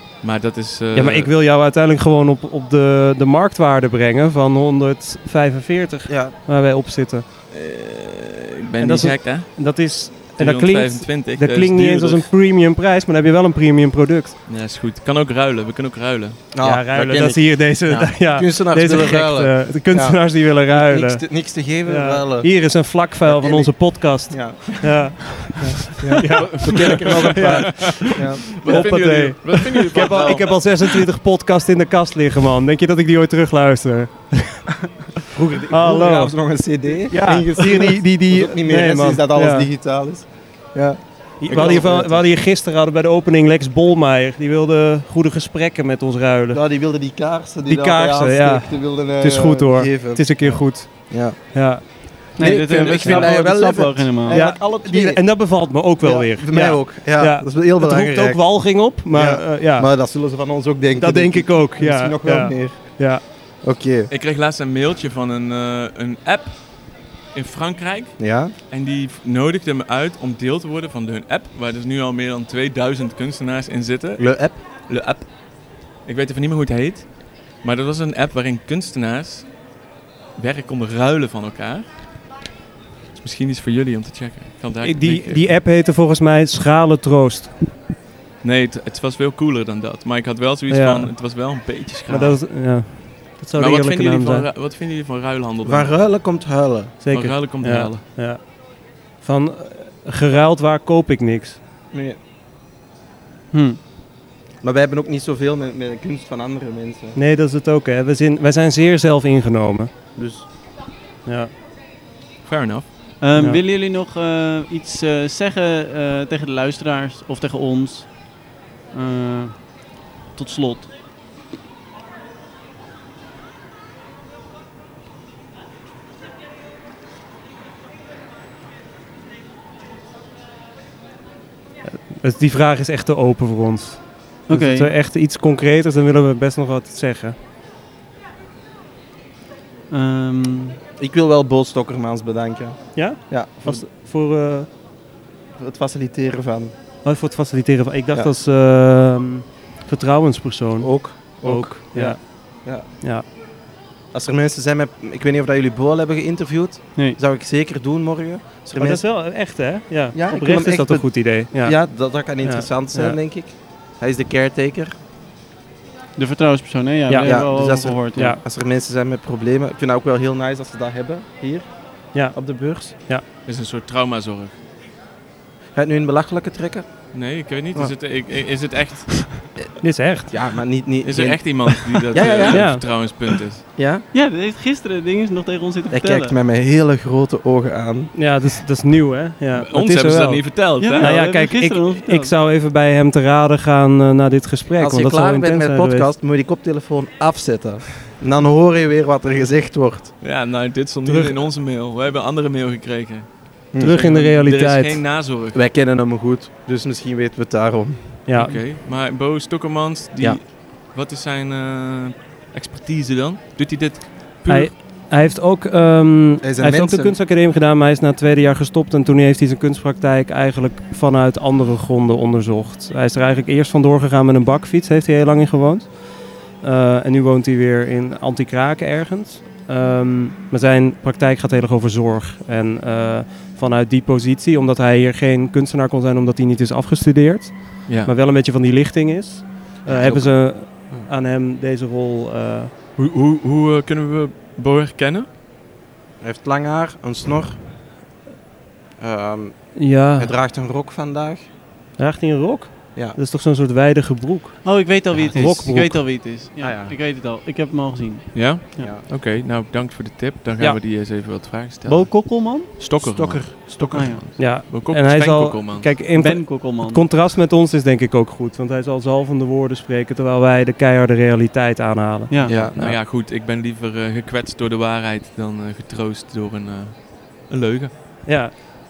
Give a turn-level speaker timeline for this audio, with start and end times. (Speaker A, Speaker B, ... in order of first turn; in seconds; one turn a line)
Speaker A: 0.2-1.3
Speaker B: 0.9-7.2
Speaker C: 6.1-6.3
Speaker A: 7.5-12.3
Speaker B: 8.8-14.4
Speaker A: 14.5-16.4
Speaker C: 16.5-25.1
Speaker B: 16.6-34.7
Speaker C: 25.8-28.9
Speaker A: 27.6-31.1
Speaker B: 35.2-39.7
Speaker C: 35.7-42.3
Speaker B: 41.4-46.6
Speaker C: 46.5-64.1
Speaker B: 47.7-53.3
Speaker D: 52.4-54.4
Speaker B: 54.3-59.9
Speaker B: 61.0-63.2
Speaker A: 64.1-79.6
Speaker C: 68.2-68.5
Speaker C: 74.2-74.6
Speaker A: 80.4-82.0
Speaker A: 83.2-85.5
Speaker B: 84.8-87.7
Speaker A: 88.4-92.5
Speaker B: 90.7-91.2
Speaker B: 92.1-94.5
Speaker A: 93.6-95.9
Speaker C: 95.6-97.0
Speaker B: 97.0-101.6
Speaker A: 97.1-98.0
Speaker C: 101.9-102.2
Speaker D: 103.5-103.8
Speaker C: 104.6-107.2
Speaker B: 107.2-109.9
Speaker C: 110.2-110.5
Speaker B: 111.2-111.5
Speaker A: 112.4-112.9
Speaker D: 113.2-120.9
Speaker B: 113.3-113.6
Speaker B: 131.9-137.4
Speaker D: 134.5-134.9
Speaker D: 139.9-140.8
Speaker C: 141.0-143.9
Speaker B: 142.9-144.7
Speaker C: 145.6-146.7
Speaker B: 147.0-153.3
Speaker C: 150.8-152.9
Speaker C: 154.1-159.1
Speaker B: 158.8-161.8
Speaker C: 160.1-164.9
Speaker B: 162.4-163.2
Speaker D: 166.2-168.4
Speaker B: 167.1-167.5
Speaker C: 167.2-173.0
Speaker B: 172.1-173.2
Speaker A: 173.4-174.6
Speaker C: 175.8-177.1
Speaker A: 177.1-179.5
Speaker B: 179.8-180.3
Speaker C: 180.3-183.1
Speaker A: 181.0-183.7
Speaker B: 182.4-182.8
Speaker C: 183.8-184.1
Speaker D: 184.1-186.3
Speaker C: 185.9-188.2
Speaker B: 188.1-196.1
Speaker A: 189.5-191.1
Speaker D: 190.8-192.3
Speaker C: 194.8-200.1
Speaker A: 200.2-205.6
Speaker B: 201.1-201.4
Speaker C: 203.7-204.0
Speaker B: 203.8-205.0
Speaker C: 205.5-208.2
Speaker B: 208.3-208.6
Speaker A: 208.4-214.7
Speaker B: 214.5-242.7
Speaker C: 216.4-217.2
Speaker A: 237.9-238.1
Speaker C: 239.8-241.1
Speaker A: 243.0-245.3
Speaker C: 246.2-247.6
Speaker C: 249.0-251.4
Speaker B: 249.8-250.3
Speaker B: 252.0-256.0
Speaker D: 254.6-258.9
Speaker C: 256.6-257.0
Speaker A: 258.3-266.0
Speaker C: 258.8-259.1
Speaker D: 261.9-262.8
Speaker C: 263.0-264.2
Speaker D: 263.9-264.2
Speaker B: 264.4-273.0
Speaker D: 266.1-267.1
Speaker D: 272.3-272.6
Speaker C: 272.5-272.8
Speaker A: 272.5-277.9
Speaker B: 278.2-278.6